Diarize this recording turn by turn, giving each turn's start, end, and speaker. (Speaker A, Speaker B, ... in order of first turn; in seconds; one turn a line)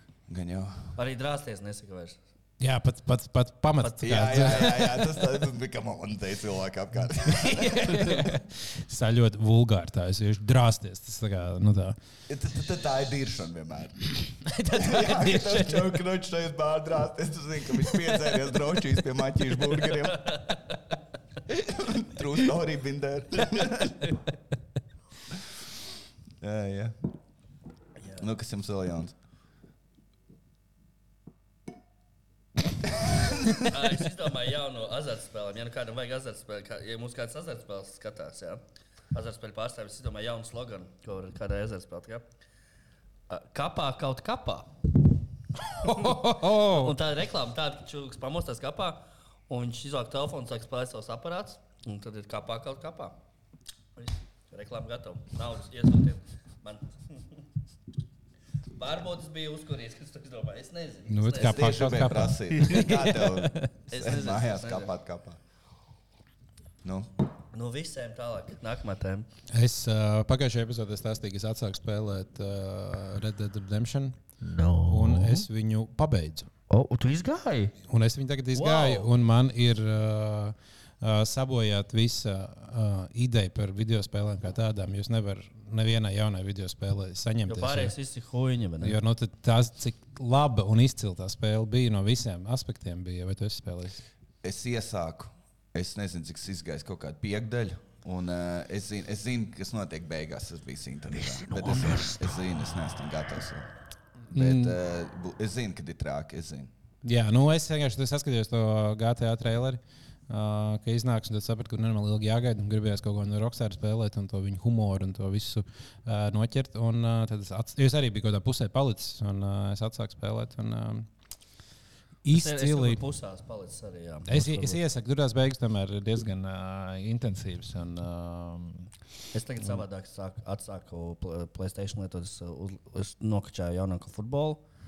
Speaker A: 0.3-0.9
Speaker B: 0.9-2.2
Speaker C: 2.6-5.1
Speaker B: 3.8-4.5
Speaker A: 4.0-8.4
Speaker C: 7.3-11.9
Speaker A: 12.3-20.3
Speaker C: 14.5-16.0
Speaker B: 20.1-20.7
Speaker A: 21.6-24.0
Speaker B: 23.5-24.3
Speaker A: 26.4-26.9
Speaker B: 28.0-28.2
Speaker A: 28.2-29.1
Speaker B: 33.6-38.6
Speaker B: 39.1-42.2
Speaker B: 43.3-44.7
Speaker C: 45.7-46.9
Speaker B: 45.9-53.2
Speaker B: 54.0-57.4
Speaker B: 58.8-61.7
Speaker C: 61.1-63.7
Speaker A: 61.4-65.4
Speaker B: 63.9-64.9
Speaker A: 66.8-67.1
Speaker B: 67.5-69.3
Speaker C: 69.5-74.2
Speaker B: 74.4-75.5
Speaker C: 74.8-76.5
Speaker B: 76.7-77.7
Speaker C: 77.9-87.9
Speaker B: 78.5-79.1
Speaker B: 87.5-89.0
Speaker C: 88.8-94.0
Speaker A: 94.4-103.7
Speaker B: 101.1-102.3
Speaker C: 104.3-104.7
Speaker A: 104.3-106.7
Speaker C: 107.0-121.1
Speaker C: 122.2-123.0
Speaker B: 122.3-124.8
Speaker C: 124.3-128.9
Speaker B: 129.3-134.6